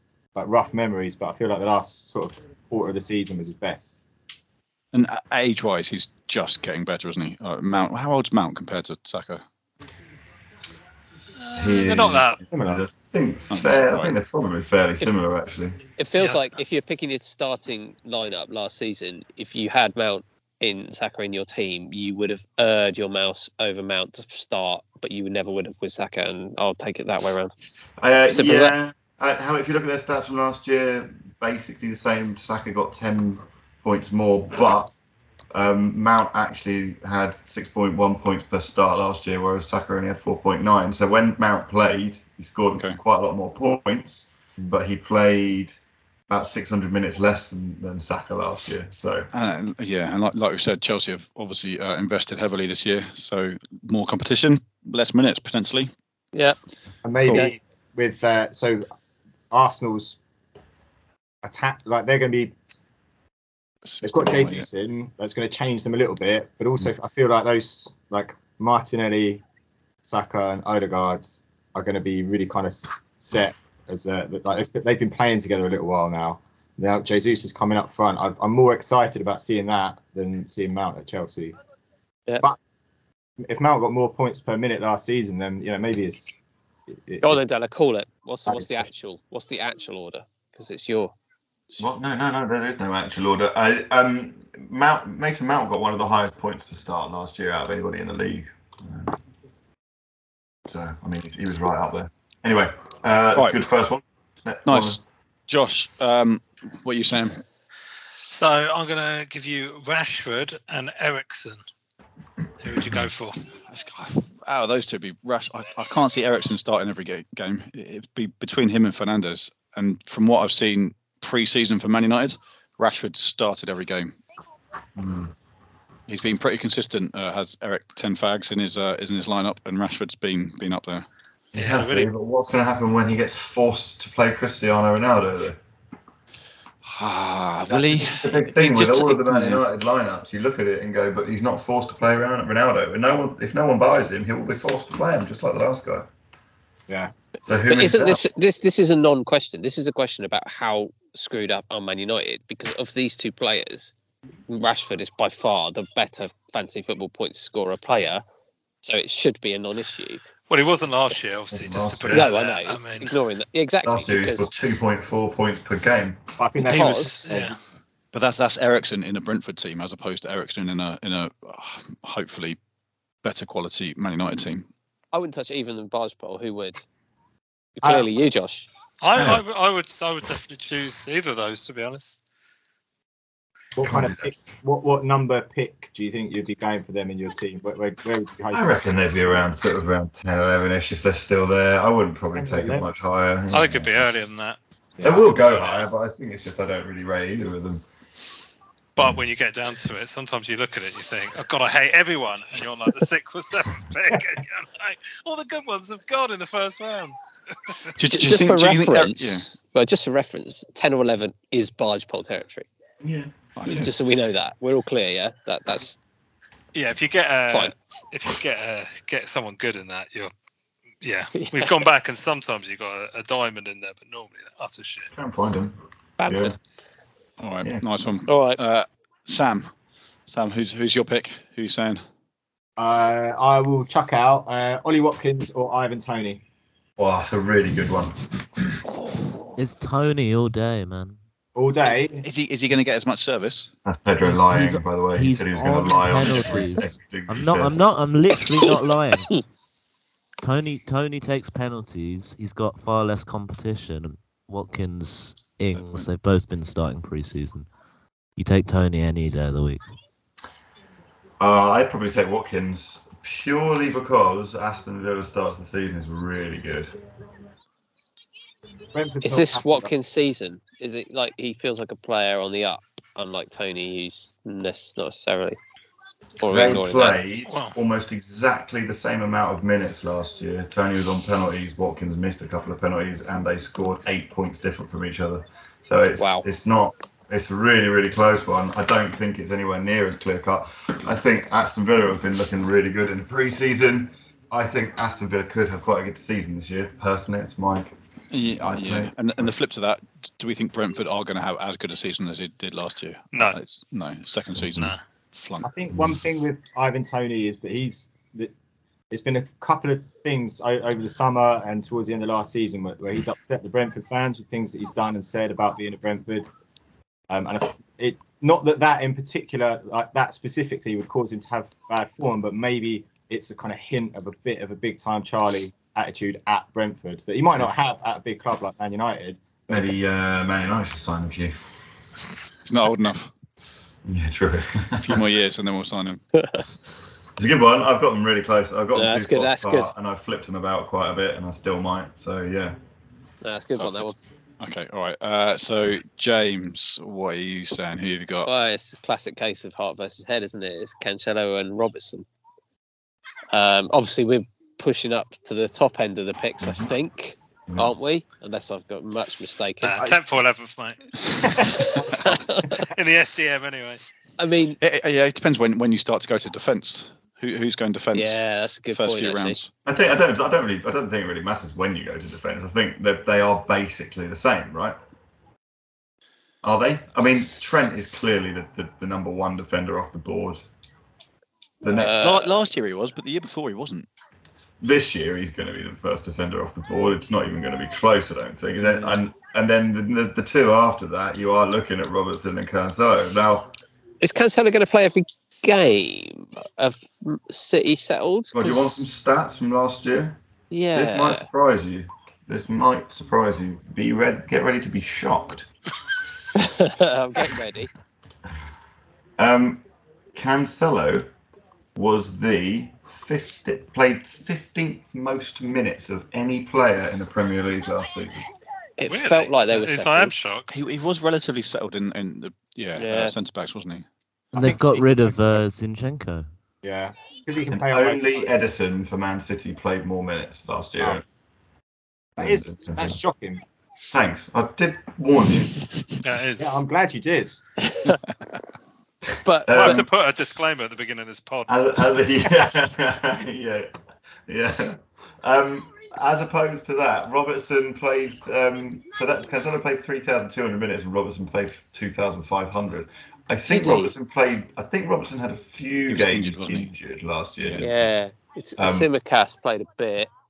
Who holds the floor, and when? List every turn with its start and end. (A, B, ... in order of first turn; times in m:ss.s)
0:00.3-0:04.0 A
0:04.9-0:09.4 B
0:11.4-0:12.4 C
0:11.5-0:15.8 D
0:12.5-0:12.8 A
0:13.5-0:14.2 B
0:16.0-0:27.5 E
0:16.2-0:16.5 C
0:28.0-0:34.9 D
0:28.3-0:28.8 E
0:35.5-0:45.8 D
0:46.3-0:49.3 D
0:49.3-0:55.9 B
0:57.0-0:58.9 A
0:59.5-1:00.2 A
1:01.4-1:02.5 A
1:03.8-1:04.7 B
1:04.0-1:09.4 A
1:10.0-1:21.6 A
1:23.4-1:26.3 A
1:26.9-1:27.4 A
1:27.2-1:31.1 E
1:28.5-1:28.9 A
1:31.8-1:39.2 D
1:40.7-1:45.0 D
1:44.6-1:47.4 B
1:48.3-1:51.6 C
1:52.6-1:53.4 C
1:53.7-2:04.2 B
2:05.0-2:05.3 D
2:06.1-2:11.0 B
2:11.5-2:15.6 D
2:11.6-2:12.1 C
2:16.8-2:19.6 B
2:17.7-2:26.1 D
2:27.4-2:28.2 D
2:27.7-2:33.9 E
2:34.5-2:38.2 E
2:38.8-2:40.2 E
2:40.5-2:43.1 C
2:41.5-2:42.3 D
2:42.1-2:44.5 E
2:43.8-2:46.2 D
2:46.4-2:47.5 A
2:46.6-2:47.6 C
2:46.7-2:47.2 E
2:48.1-2:52.6 B
2:53.2-2:54.7 B
2:55.1-2:56.8 E
2:57.8-2:58.7 E
2:57.8-2:58.1 A
2:59.0-3:02.2 C
2:59.2-2:59.4 D
3:03.8-3:09.4 A
3:03.8-3:04.3 D
3:08.5-3:13.9 D
3:12.3-3:12.8 A
3:13.5-3:14.6 C
3:15.0-3:17.8 D
3:15.2-3:15.8 C
3:19.0-3:27.8 C
3:28.0-3:29.5 B
3:28.1-3:32.7 E
3:33.0-3:33.3 D
3:33.6-3:33.9 B
3:33.7-3:36.0 E
3:36.7-3:40.3 C
3:41.0-3:45.1 C
3:41.4-3:41.8 E
3:45.1-3:46.5 D
3:46.2-3:46.5 E
3:47.4-3:49.7 B
3:48.3-3:48.6 E
3:50.3-3:52.0 B
3:52.8-3:56.4 A
3:57.0-3:58.7 D
3:59.6-4:01.2 F
4:01.6-4:02.2 A
4:02.2-4:03.7 B
4:03.8-4:07.8 D
4:04.2-4:09.3 F
4:10.4-4:17.7 F
4:18.4-4:19.8 F
4:21.4-4:26.9 D
4:28.9-4:29.9 A
4:29.2-4:35.6 E
4:36.4-4:37.2 E
4:36.5-4:57.9 D
4:37.5-4:37.8 C
4:46.2-4:46.4 E
4:58.3-5:05.7 B
4:58.6-4:59.5 D
5:03.3-5:03.6 C
5:05.6-5:08.5 A
5:09.1-5:16.5 A
5:17.3-5:29.9 A
5:29.7-5:31.5 D
5:32.6-5:33.3 B
5:34.0-5:35.3 D
5:35.0-5:36.2 B
5:36.3-5:36.6 E
5:37.4-5:42.8 D
5:38.9-5:39.9 E
5:43.4-5:44.2 E
5:43.8-5:48.5 B
5:48.4-5:52.2 E
5:53.5-6:00.1 E
5:56.6-5:56.9 D
5:59.8-6:01.7 C
6:01.5-6:02.9 E
6:02.7-6:04.0 C
6:04.4-6:04.8 E
6:04.8-6:09.7 B
6:08.1-6:09.6 E
6:09.8-6:15.0 D
6:16.6-6:20.6 D
6:21.8-6:22.2 D
6:21.8-6:22.6 E
6:22.1-6:24.1 B
6:24.8-6:33.7 D
6:34.2-6:39.1 E
6:38.5-6:40.4 D
6:40.7-6:41.5 E
6:40.9-6:45.7 D
6:46.5-6:47.9 E
6:49.4-6:49.8 D
6:50.3-6:51.3 D
6:51.9-6:58.4 D
6:59.0-7:00.3 E
6:59.0-7:00.8 C
7:00.7-7:04.1 B
7:03.0-7:03.3 E
7:04.5-7:05.6 A
7:04.5-7:06.4 F
7:06.8-7:08.5 A
7:07.7-7:11.2 D
7:12.4-7:13.2 D
7:12.4-7:13.6 A
7:14.1-7:15.8 D
7:16.2-7:16.8 C
7:16.6-7:17.6 A
7:17.9-7:18.2 E
7:19.4-7:20.0 E
7:19.6-7:20.1 D
7:19.7-7:21.7 C
7:21.7-7:23.9 D
7:24.5-7:37.9 D
7:33.6-7:34.2 E
7:36.1-7:36.9 B
7:37.6-7:37.9 B
7:37.8-7:40.3 E
7:38.8-7:39.1 D